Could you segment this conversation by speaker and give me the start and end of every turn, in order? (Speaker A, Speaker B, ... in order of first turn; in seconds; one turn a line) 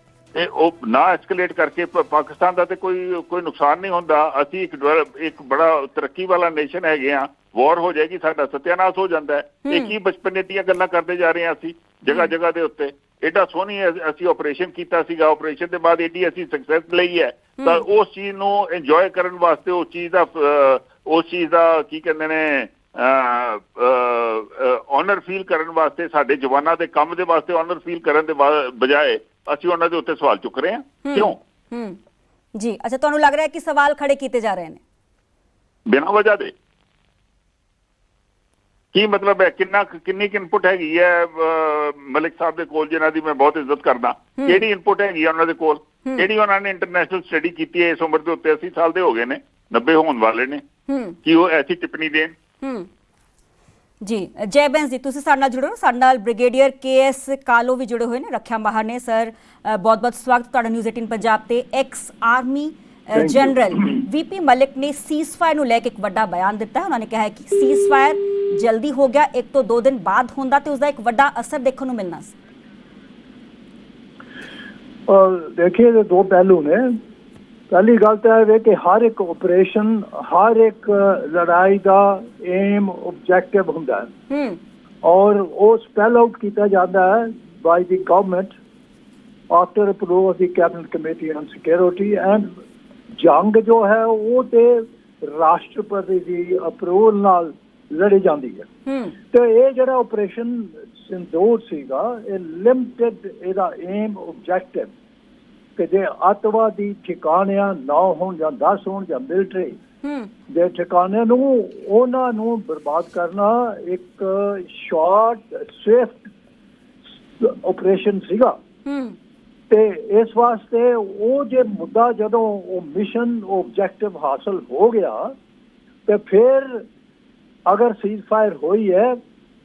Speaker A: 0.3-31.4
Speaker B: 9.7-9.9
Speaker B: 31.1-32.0
Speaker B: 32.5-34.8
Speaker A: 35.9-36.5
Speaker A: 38.9-50.6
Speaker B: 44.4-44.6
Speaker B: 50.9-51.2
Speaker A: 51.2-52.4
Speaker B: 52.6-52.9
Speaker B: 54.0-72.4
Speaker C: 63.1-64.0
Speaker C: 75.1-76.9
Speaker C: 77.7-84.1
Speaker B: 84.3-84.6
Speaker C: 85.0-88.5
Speaker C: 89.5-92.5
Speaker C: 93.1-98.7
Speaker B: 98.9-99.2
Speaker C: 99.3-104.9
Speaker C: 105.8-109.8
Speaker B: 110.0-110.3
Speaker C: 110.5-116.3
Speaker C: 117.4-118.6
Speaker B: 118.9-119.2
Speaker C: 119.7-125.3
Speaker C: 126.1-126.9
Speaker C: 127.7-129.2